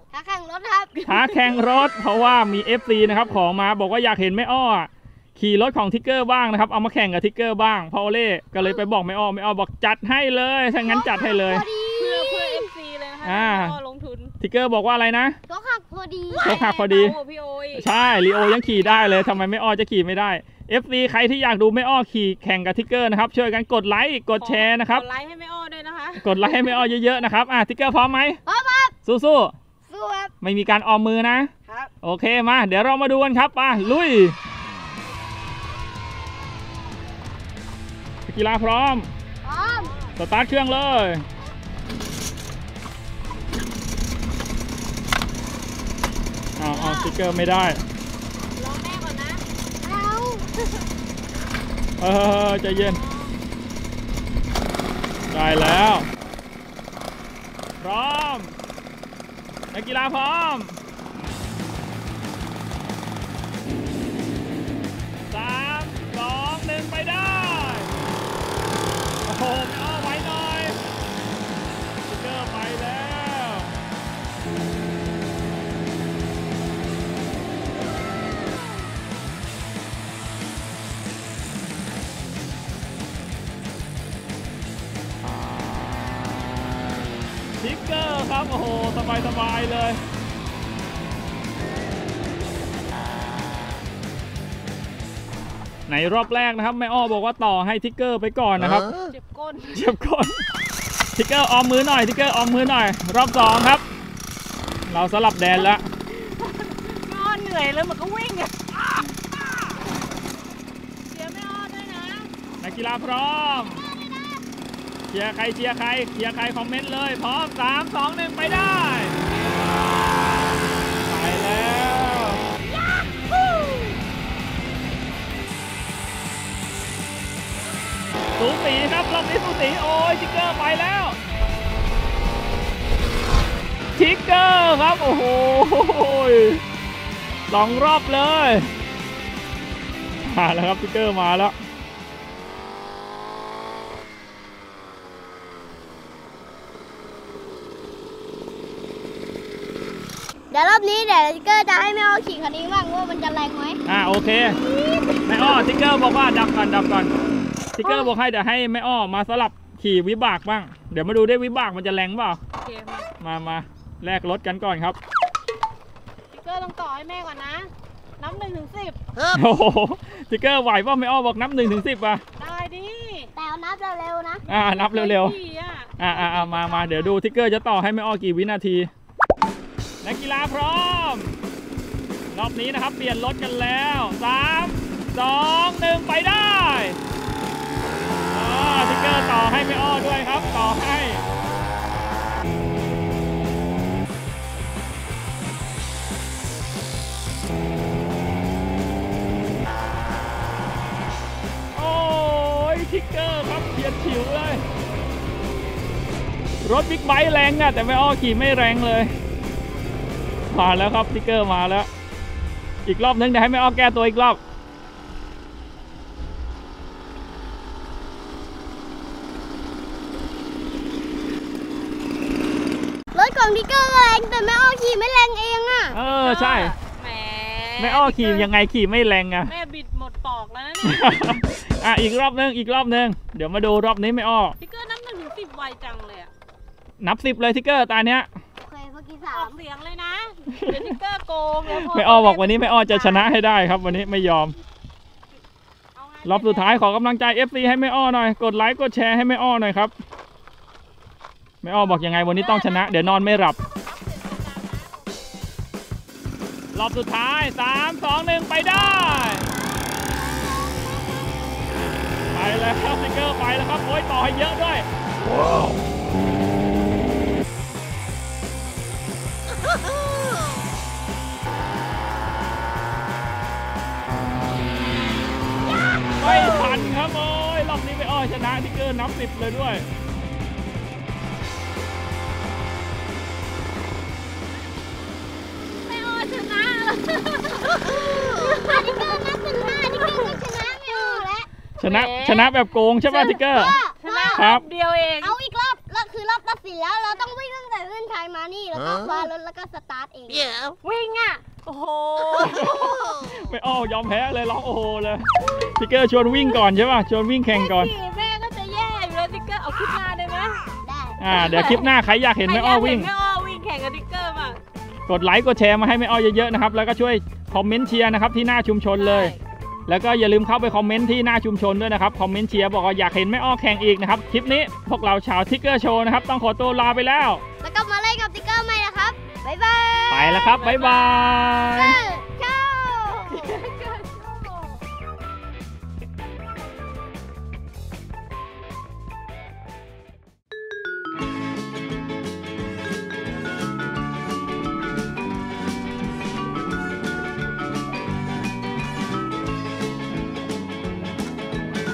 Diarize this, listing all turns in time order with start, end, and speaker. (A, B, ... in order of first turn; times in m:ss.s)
0:00.1-0:01.6 A
0:01.0-0:11.6 B
0:10.8-0:12.7 A
0:12.0-0:14.3 C
0:13.2-0:13.8 B
0:14.4-0:15.4 B
0:15.5-0:16.6 A
0:16.4-0:17.9 C
0:16.4-0:17.2 B
0:17.8-0:25.0 B
0:24.3-0:26.9 C
0:26.2-0:28.4 B
0:28.4-0:29.0 A
0:29.0-0:29.5 B
0:29.9-0:30.3 A
0:30.4-0:31.5 B
0:32.0-0:34.3 B
0:38.3-0:39.1 B
0:39.4-0:39.9 A
0:39.6-0:40.2 C
0:40.2-0:41.2 B
0:46.6-0:47.8 B
0:46.8-0:47.2 A
0:48.6-0:49.4 C
0:49.8-0:50.8 A
0:52.0-0:53.0 B
0:52.7-0:53.3 C
0:55.3-0:56.1 B
0:57.8-0:58.5 B
0:59.7-1:00.8 B
1:05.3-1:07.9 B
1:09.2-1:10.8 B
1:12.1-1:13.7 B
1:27.6-1:30.0 B
1:35.9-1:38.9 B
1:38.9-1:39.8 C
1:39.7-1:40.4 B
1:41.1-1:43.8 B
1:44.9-1:45.8 B
1:46.2-1:49.0 C
1:51.1-1:52.3 C
1:52.6-1:53.8 B
1:53.6-1:54.4 A
1:55.1-1:59.2 B
2:01.0-2:02.4 B
2:02.7-2:03.9 A
2:08.4-2:11.2 B
2:14.0-2:16.6 B
2:17.5-2:18.7 B
2:20.2-2:21.5 B
2:30.5-2:33.8 A
2:33.8-2:34.6 B
2:34.6-2:35.6 A
2:35.2-2:37.1 B
2:37.7-2:42.4 B
2:37.8-2:38.1 A
2:42.6-2:43.1 C
2:43.2-2:45.0 B
2:46.3-2:49.0 C
2:49.3-2:52.2 B
2:52.4-2:53.3 C
2:53.3-2:54.4 A
2:54.4-2:57.2 C
2:54.5-2:55.4 B
2:56.0-2:58.9 B
3:00.0-3:01.4 B
3:02.3-3:07.0 B
3:08.3-3:11.2 B
3:21.7-3:24.6 B
3:26.6-3:29.1 B
3:30.5-3:31.9 B
3:32.8-3:34.4 B
3:43.1-3:46.0 A
3:45.9-3:46.7 B
3:46.1-3:48.5 C
3:47.8-3:49.5 B
3:49.5-3:51.1 C
3:50.8-3:54.6 B
3:54.6-3:56.3 C
3:57.0-3:58.3 B
3:58.6-3:59.5 A
3:59.3-4:03.3 C
4:00.5-4:00.9 B
4:01.7-4:04.6 B
4:05.9-4:06.8 C
4:06.2-4:09.9 B
4:11.6-4:13.6 B
4:11.9-4:15.1 C
4:16.7-4:19.5 B
4:18.7-4:19.2 C
4:18.8-4:21.2 A
4:22.3-4:24.8 B
4:35.9-4:36.9 C
4:36.2-4:39.8 B
4:45.8-4:51.3 C
4:48.2-4:51.5 A
4:51.8-4:53.8 B
4:51.8-4:53.4 C
4:53.3-4:54.5 A
4:54.0-4:55.4 C
4:54.3-4:54.6 B
4:55.2-5:00.7 A
5:00.8-5:03.1 C
5:02.4-5:07.9 B
5:07.4-5:10.6 C
5:10.8-5:11.2 A
5:11.2-5:13.1 B
5:11.3-5:14.6 C
5:15.1-5:19.3 B
5:18.9-5:19.4 C
5:19.9-5:27.4 B
5:27.6-5:30.6 A
5:30.1-5:32.0 B
5:30.5-5:31.6 C
5:31.6-5:33.7 A
5:33.4-5:34.3 C